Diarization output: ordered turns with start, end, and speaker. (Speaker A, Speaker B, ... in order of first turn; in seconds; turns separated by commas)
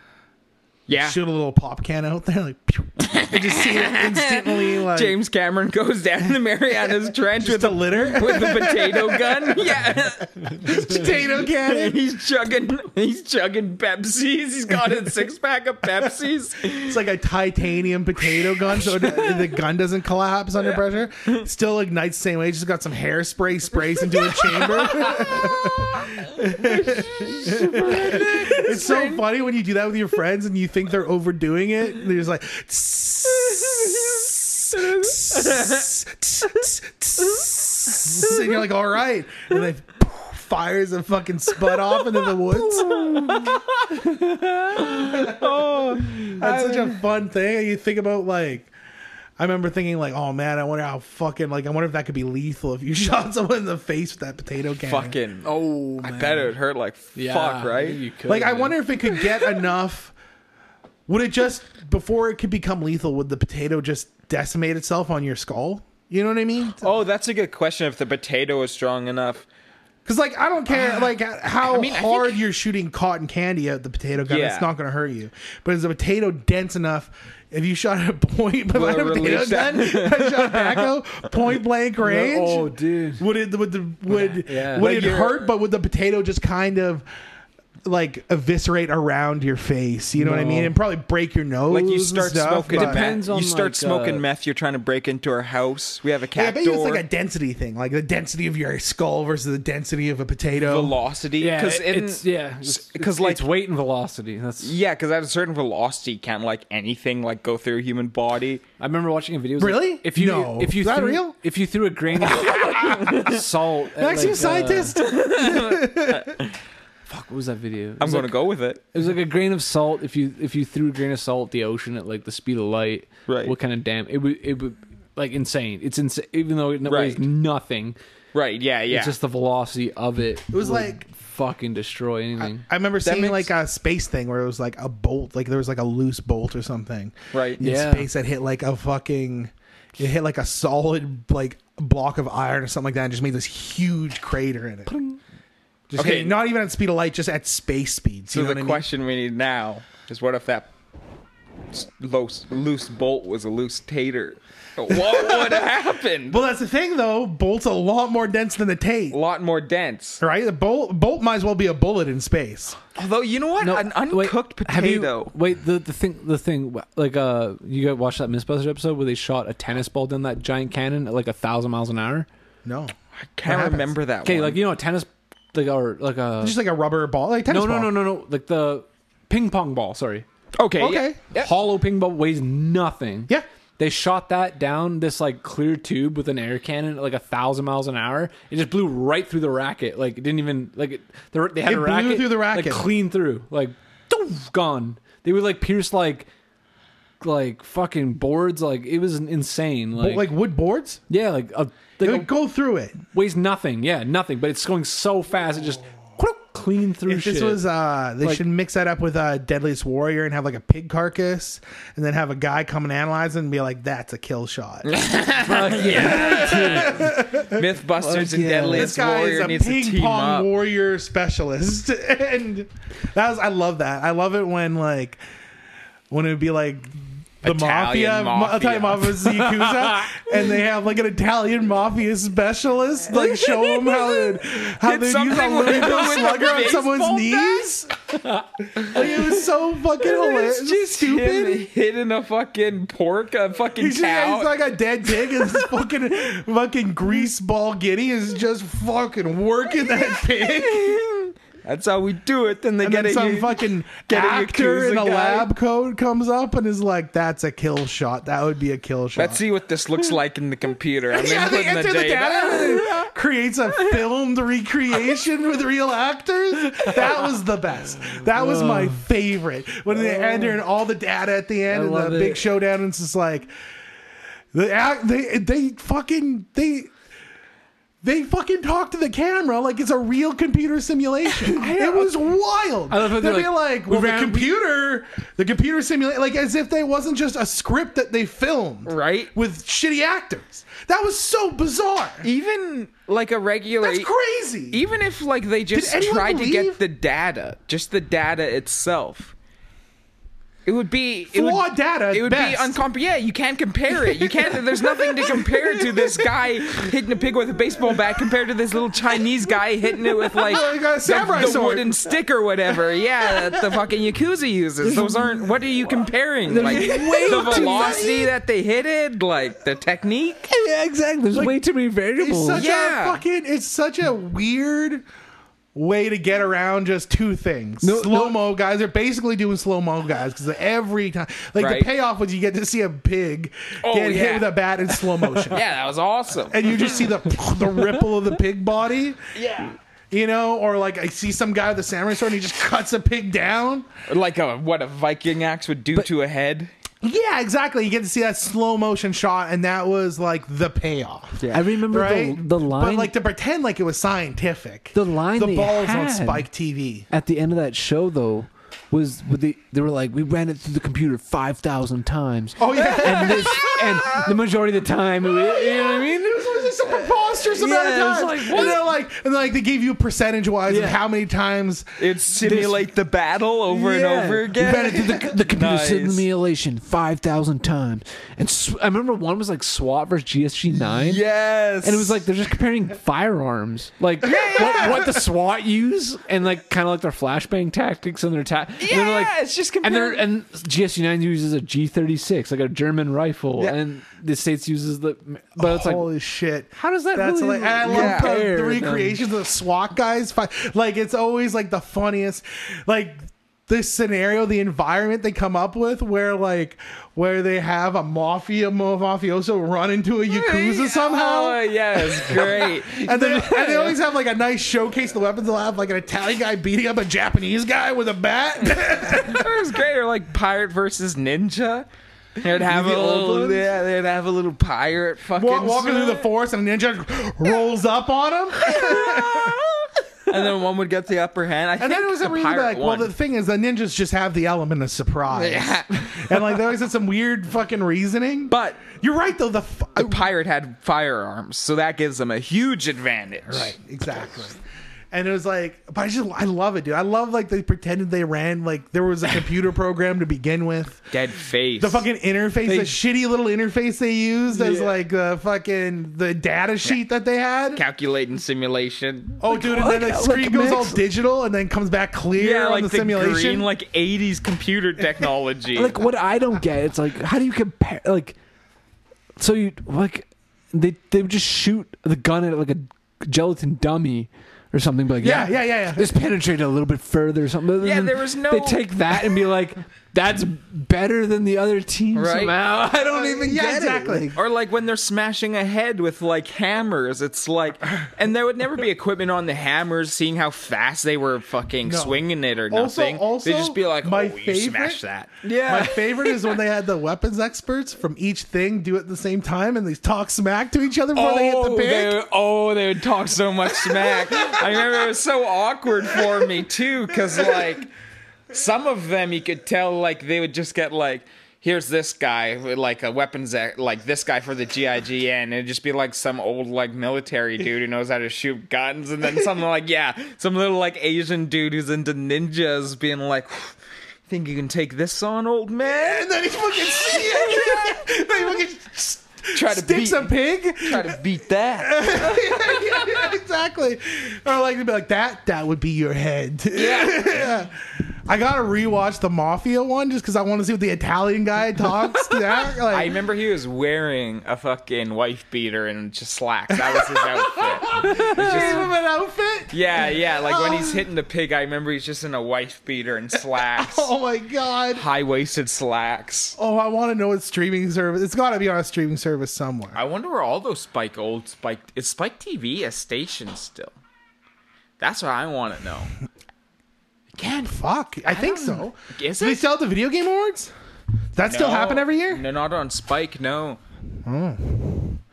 Speaker A: 0.9-1.2, Speaker B: 1.0-5.2, Speaker A: 3.0-17.0, Speaker B: 7.4-12.0, Speaker B: 16.7-43.1, Speaker A: 18.5-19.5, Speaker A: 24.1-29.2, Speaker C: 27.5-28.2, Speaker A: 33.4-35.8, Speaker A: 37.4-38.5, Speaker A: 42.7-43.7, Speaker C: 42.8-45.0, Speaker A: 44.7-47.0, Speaker B: 45.1-45.5, Speaker B: 46.4-48.7, Speaker B: 49.4-55.2, Speaker A: 54.9-58.0, Speaker C: 55.4-56.5, Speaker C: 57.1-58.8, Speaker B: 58.3-60.1, Speaker B: 61.1-66.9, Speaker A: 66.8-69.5, Speaker B: 70.0-87.0, Speaker A: 70.7-72.4, Speaker A: 74.2-74.7, Speaker A: 78.7-80.9, Speaker C: 82.0-83.3, Speaker C: 84.1-84.9, Speaker A: 84.7-85.5, Speaker B: 87.8-93.1, Speaker C: 90.2-90.8, Speaker A: 91.7-97.0, Speaker C: 92.7-94.2, Speaker B: 96.3-101.0, Speaker A: 100.6-103.5, Speaker C: 101.4-104.8, Speaker A: 104.6-108.6, Speaker C: 108.8-115.0, Speaker B: 109.6-111.4, Speaker A: 112.4-113.4, Speaker B: 114.0-116.3, Speaker A: 115.0-116.5, Speaker C: 117.1-118.4, Speaker A: 118.0-118.8, Speaker C: 118.9-128.0, Speaker A: 123.3-123.5, Speaker A: 126.9-127.2, Speaker A: 128.3-129.2, Speaker C: 128.9-132.7, Speaker B: 130.5-131.0, Speaker B: 132.4-145.0, Speaker A: 133.1-133.4, Speaker A: 137.3-137.6, Speaker C: 137.6-138.1, Speaker C: 144.9-145.2, Speaker B: 145.9-148.8, Speaker A: 145.9-146.4, Speaker A: 148.3-150.7, Speaker A: 151.7-156.4, Speaker B: 154.9-155.7, Speaker B: 156.3-159.2, Speaker A: 159.1-160.2, Speaker B: 160.2-162.8, Speaker A: 162.9-165.3, Speaker C: 163.6-172.3, Speaker B: 172.7-173.9, Speaker A: 173.2-174.6, Speaker C: 174.2-176.6, Speaker B: 176.4-178.0, Speaker C: 177.5-180.3, Speaker A: 180.6-181.5, Speaker B: 180.8-181.2, Speaker C: 181.3-196.3, Speaker B: 191.7-192.9, Speaker C: 197.2-200.3, Speaker B: 200.0-201.0, Speaker C: 201.1-202.3, Speaker B: 202.0-203.0, Speaker C: 203.1-207.7, Speaker B: 207.1-215.0, Speaker A: 214.8-220.5, Speaker C: 215.4-217.3, Speaker B: 215.7-217.7, Speaker C: 217.9-218.9, Speaker B: 218.7-225.2, Speaker B: 226.1-237.9, Speaker A: 227.4-229.2, Speaker C: 229.4-230.2, Speaker A: 233.1-237.7, Speaker B: 238.8-241.7, Speaker A: 238.8-239.3, Speaker A: 240.0-244.6, Speaker B: 243.8-251.0, Speaker A: 250.3-255.5, Speaker B: 252.8-259.4, Speaker A: 259.2-263.1, Speaker B: 261.1-273.5, Speaker C: 266.8-267.3, Speaker C: 267.9-269.0, Speaker C: 269.9-270.6, Speaker C: 271.7-272.5, Speaker B: 274.5-276.9, Speaker B: 278.0-292.2, Speaker C: 281.5-282.0, Speaker C: 282.9-284.5, Speaker A: 288.9-289.3, Speaker A: 292.2-294.1, Speaker B: 293.8-294.8, Speaker A: 294.7-299.3, Speaker B: 295.7-296.8, Speaker A: 300.6-320.5, Speaker B: 301.3-302.8, Speaker B: 303.9-306.9, Speaker B: 310.2-311.9, Speaker B: 313.3-313.8, Speaker C: 316.5-318.2, Speaker B: 316.5-318.3, Speaker C: 320.5-322.6, Speaker B: 321.3-321.6, Speaker B: 322.2-325.0, Speaker A: 322.6-323.2, Speaker B: 325.8-335.6, Speaker C: 327.8-328.4, Speaker A: 331.6-331.9, Speaker A: 333.8-337.1, Speaker B: 336.5-339.2, Speaker A: 339.4-339.8, Speaker B: 340.1-343.9, Speaker A: 344.1-346.7, Speaker B: 347.0-357.1, Speaker A: 351.4-351.7, Speaker C: 351.5-353.1, Speaker C: 354.9-356.5, Speaker C: 357.1-368.9, Speaker B: 362.6-363.7, Speaker A: 362.9-364.3, Speaker B: 365.2-371.9, Speaker A: 368.5-368.8, Speaker C: 370.7-371.0, Speaker A: 372.0-376.3, Speaker C: 372.4-372.9, Speaker C: 373.7-381.2, Speaker B: 374.9-375.2, Speaker A: 380.9-382.2, Speaker C: 381.8-396.1, Speaker A: 384.2-385.0, Speaker B: 384.5-384.8, Speaker A: 388.8-390.2, Speaker B: 395.6-419.5, Speaker C: 396.8-399.2, Speaker A: 397.9-398.3, Speaker A: 410.3-413.9, Speaker A: 419.0-426.3, Speaker B: 422.6-423.7, Speaker B: 425.4-429.6, Speaker A: 428.6-433.1, Speaker B: 431.8-440.2, Speaker A: 435.3-436.6, Speaker A: 438.5-439.0, Speaker A: 440.0-443.8, Speaker B: 443.5-444.6, Speaker B: 445.1-451.1, Speaker A: 451.1-452.0, Speaker B: 451.8-457.8, Speaker C: 452.6-453.0, Speaker C: 454.5-454.9, Speaker A: 457.7-459.4, Speaker B: 459.4-463.7, Speaker C: 459.5-461.1, Speaker A: 462.4-466.1, Speaker C: 465.7-468.4, Speaker C: 469.4-484.3, Speaker B: 475.2-476.2, Speaker A: 477.8-478.9, Speaker A: 482.1-482.6, Speaker B: 483.1-484.4, Speaker A: 484.4-496.6, Speaker B: 491.8-495.0, Speaker B: 495.6-502.2, Speaker A: 501.1-507.9, Speaker B: 504.1-504.6, Speaker A: 508.5-523.8, Speaker A: 524.3-528.0, Speaker B: 525.8-531.2, Speaker A: 529.5-533.1, Speaker B: 531.8-537.7, Speaker A: 536.7-537.5, Speaker B: 538.3-543.2, Speaker A: 542.9-548.9, Speaker B: 546.7-551.1, Speaker A: 549.7-554.1, Speaker B: 553.6-555.0, Speaker A: 554.9-556.6, Speaker B: 556.6-560.0, Speaker A: 559.9-563.9, Speaker A: 565.0-566.1, Speaker A: 567.4-567.7, Speaker B: 567.6-570.7, Speaker A: 568.2-569.7, Speaker B: 571.4-572.5, Speaker A: 571.4-573.8, Speaker B: 574.3-575.2